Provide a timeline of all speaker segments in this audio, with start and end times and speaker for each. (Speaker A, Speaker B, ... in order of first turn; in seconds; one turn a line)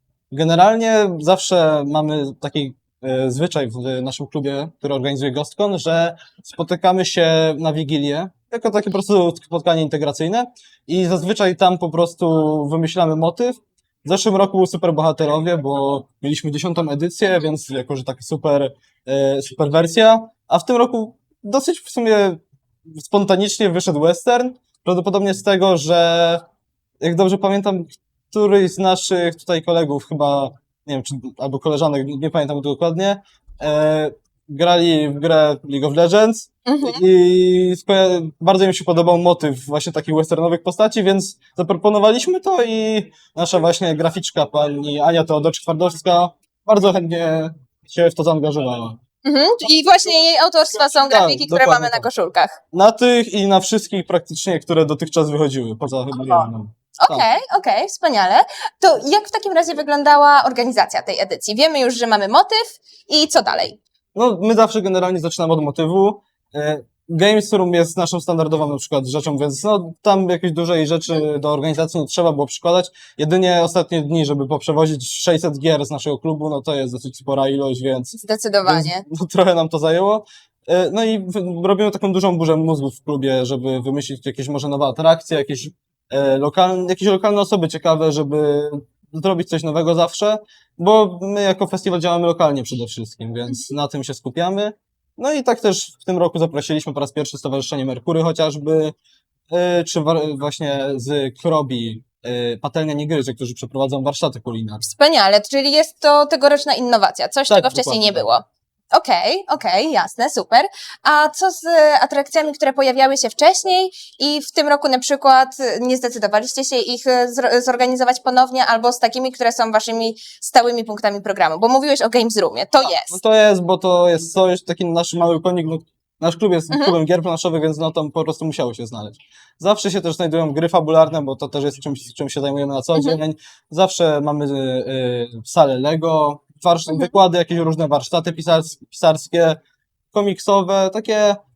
Speaker A: 0.3-26.4
Speaker A: 27.0-49.0
Speaker B: 36.7-37.0
Speaker B: 49.2-52.6
Speaker A: 50.9-52.1
Speaker A: 52.7-57.3
Speaker B: 56.1-56.5
Speaker B: 57.0-63.8
Speaker A: 64.2-99.0
Speaker B: 78.2-79.0
Speaker A: 99.5-104.9
Speaker B: 104.8-123.2
Speaker A: 107.5-108.3
Speaker A: 122.8-139.6
Speaker B: 126.7-127.0
Speaker B: 132.9-133.2
Speaker A: 140.1-141.4